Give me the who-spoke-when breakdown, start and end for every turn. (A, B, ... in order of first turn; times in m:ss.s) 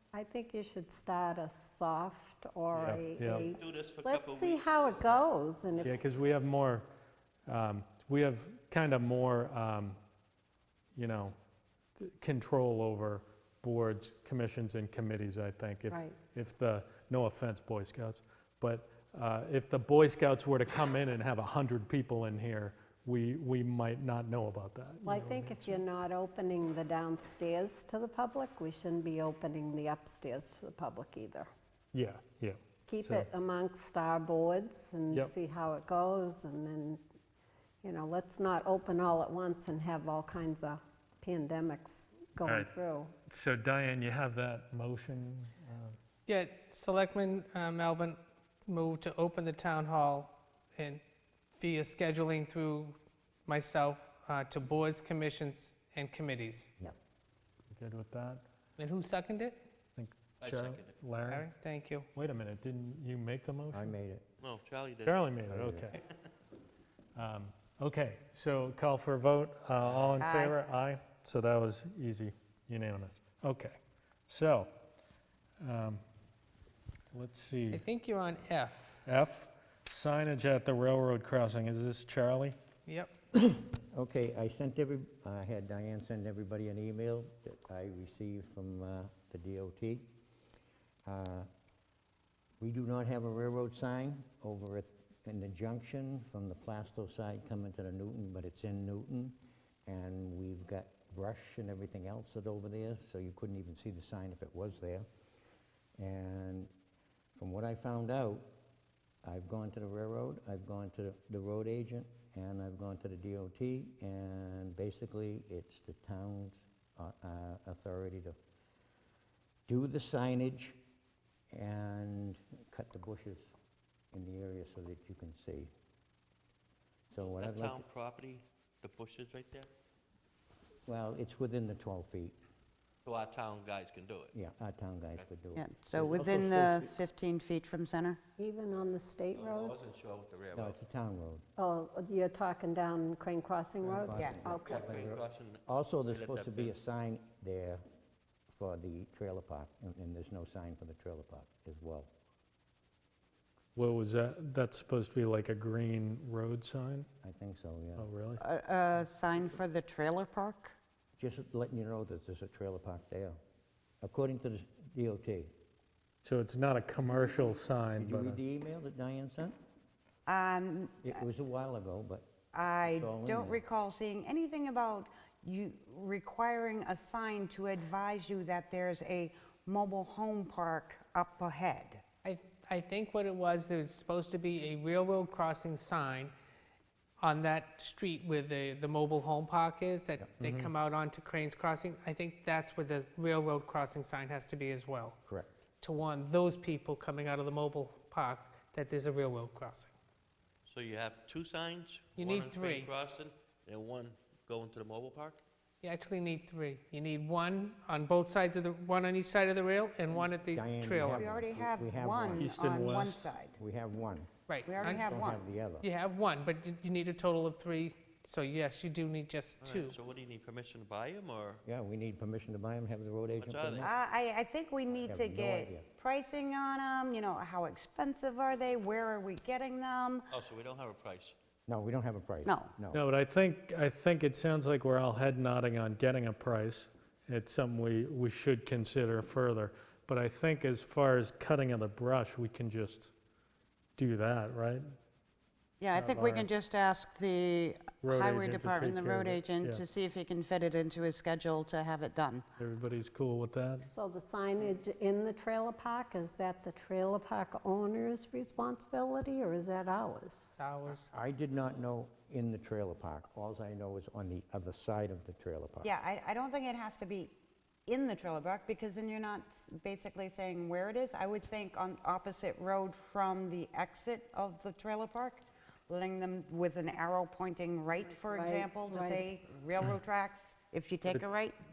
0:00.1-0:05.9 A
0:02.7-0:03.5 B
0:03.5-0:05.2 C
0:05.8-0:06.9 B
0:07.5-0:10.0 B
0:11.0-0:11.4 B
0:12.0-0:25.8 B
0:15.9-0:16.2 A
0:25.0-0:31.5 A
0:31.9-0:33.3 B
0:32.9-0:37.0 A
0:37.8-0:43.2 A
0:42.4-0:42.7 B
0:43.3-0:46.0 B
0:46.3-0:51.0 D
0:51.6-0:56.7 D
0:57.7-0:58.4 B
0:58.8-0:59.6 D
1:00.0-1:01.5 B
1:00.4-1:01.0 C
1:01.3-1:02.1 D
1:02.2-1:04.0 B
1:03.7-1:04.2 E
1:04.4-1:05.3 C
1:05.0-1:06.0 B
1:05.5-1:05.9 E
1:07.2-1:14.7 B
1:10.2-1:10.6 F
1:15.6-1:16.0 B
1:17.1-1:17.8 B
1:17.7-1:19.0 D
1:19.1-1:22.6 B
1:22.9-1:23.1 D
1:23.4-1:30.1 E
1:31.0-1:31.5 E
1:32.6-1:45.1 E
1:46.0-1:46.7 E
1:47.4-1:48.5 E
1:49.2-1:58.4 E
1:59.7-2:00.8 E
2:01.5-2:03.5 E
2:04.1-2:05.7 E
2:07.1-2:07.9 E
2:07.2-2:09.7 C
2:10.9-2:12.4 E
2:13.0-2:14.3 C
2:14.3-2:16.9 E
2:15.6-2:18.2 F
2:18.4-2:19.8 A
2:19.3-2:20.8 C
2:20.5-2:21.4 E
2:21.6-2:24.9 A
2:23.8-2:27.8 E
2:24.1-2:24.4 F
2:24.6-2:26.7 C
2:28.5-2:32.1 E
2:33.8-2:37.1 B
2:37.2-2:38.1 E
2:38.0-2:38.4 B
2:38.4-2:40.8 F
2:41.2-2:43.4 E
2:44.0-2:45.5 E
2:46.2-2:48.4 B
2:48.0-2:49.6 E
2:50.3-2:51.2 F
2:51.0-2:52.3 E
2:52.5-3:02.0 F
2:52.8-2:53.6 E
3:02.2-3:06.3 D
3:07.2-3:15.2 D
3:10.4-3:10.7 B
3:15.3-3:15.6 E
3:15.8-3:19.9 D
3:20.6-3:25.4 C
3:22.2-3:22.9 D
3:25.8-3:31.3 D
3:30.1-3:32.5 E
3:31.1-3:33.6 F
3:32.4-3:33.4 B
3:33.6-3:34.3 E
3:34.5-3:35.1 D
3:34.7-3:35.4 F
3:34.8-3:35.9 E
3:35.8-3:40.0 D
3:39.6-3:41.6 C
3:41.6-3:43.9 E
3:43.4-3:43.9 C
3:43.8-3:50.3 F
3:44.9-3:45.9 E
3:50.3-3:51.4 C
3:51.7-3:53.0 E
3:52.4-3:52.7 F
3:52.9-4:03.1 B
4:04.0-4:04.9 B
4:05.8-4:12.4 F
4:05.9-4:06.5 B
4:08.0-4:09.8 B
4:12.6-4:13.9 B
4:13.9-4:20.5 A
4:20.6-4:21.1 D
4:20.9-4:25.9 E
4:25.8-4:27.3 F
4:27.9-4:41.6 F
4:38.2-4:39.2 A